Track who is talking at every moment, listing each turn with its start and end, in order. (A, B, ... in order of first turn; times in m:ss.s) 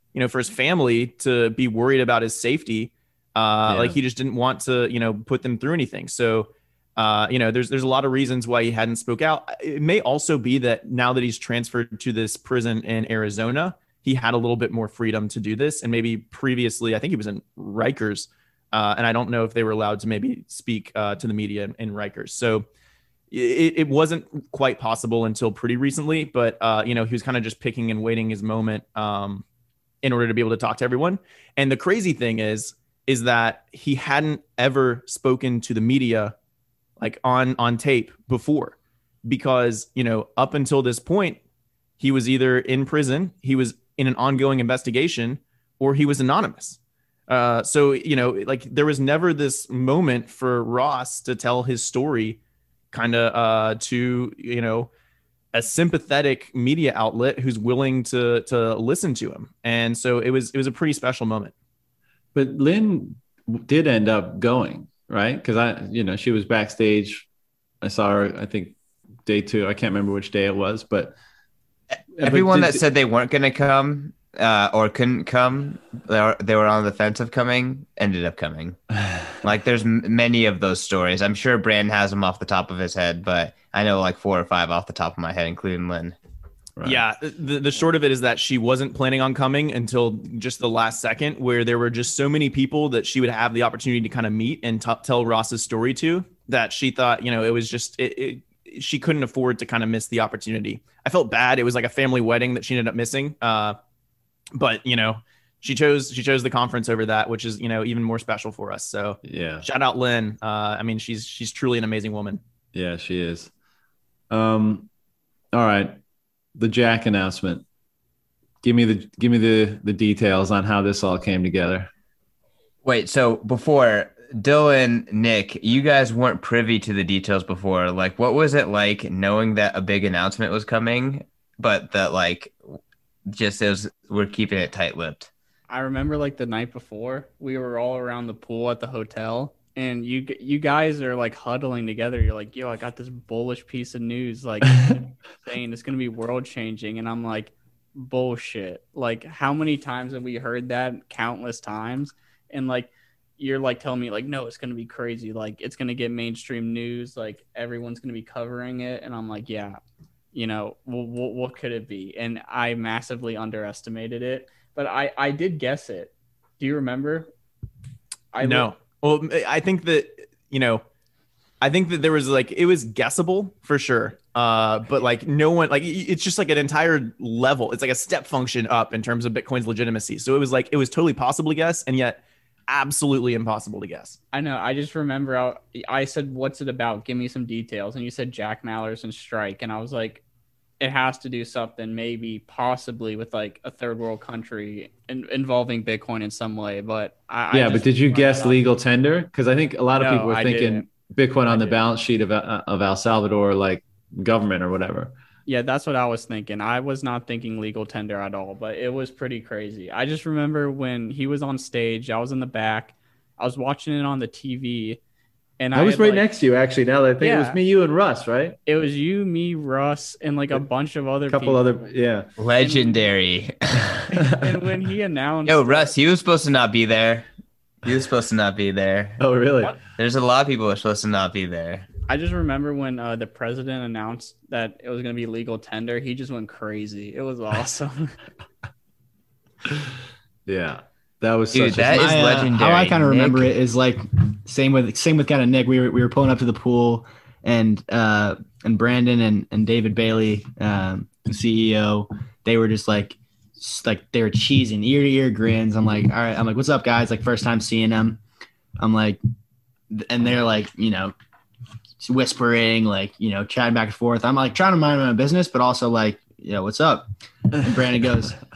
0:00.1-0:22.6 A
0:03.7-0:04.0 B
0:23.3-0:29.4 A
0:30.0-0:36.4 A
0:37.0-0:41.4 A
0:42.0-0:52.4 A
0:52.9-0:54.9 A
0:55.5-1:01.5 A
1:02.4-1:07.3 B
1:07.8-1:08.8 B
1:09.3-1:11.2 B
1:12.2-1:12.8 B
1:12.2-1:18.8 C
1:19.4-1:26.2 C
1:26.8-1:27.0 B
1:26.8-1:43.8 A
1:44.5-1:52.4 A
1:49.2-1:49.6 B
1:52.7-1:53.5 B
1:54.3-1:54.9 B
1:55.5-1:56.0 B
1:56.6-1:57.6 B
1:58.6-2:01.9 B
2:02.8-2:12.6 C
2:13.3-2:15.3 C
2:15.7-2:39.8 D
2:40.3-2:47.3 D
2:48.3-2:48.7 D
2:48.4-2:50.8 A
2:51.6-3:04.2 A
3:04.3-3:10.2 D
3:10.8-3:18.6 D
3:17.5-3:25.1 B
3:20.0-3:20.9 D
3:21.5-3:21.8 D
3:25.5-3:35.0 D
3:35.6-3:36.2 D
3:35.8-3:38.6 B
3:37.2-3:37.6 D
3:38.7-3:41.6 D
3:41.3-3:42.3 B
3:42.4-3:44.0 C
3:42.6-3:43.0 D
3:44.4-3:45.9 D
3:45.4-3:47.3 C
3:47.8-3:49.2 C
3:49.2-3:49.8 B
3:49.8-3:51.9 C
3:52.1-3:58.2 D
4:00.5-4:02.1 B
4:01.5-4:03.5 C
4:02.0-4:18.2 E
4:18.8-4:19.2 E
4:19.9-4:21.1 E
4:22.0-4:28.4 E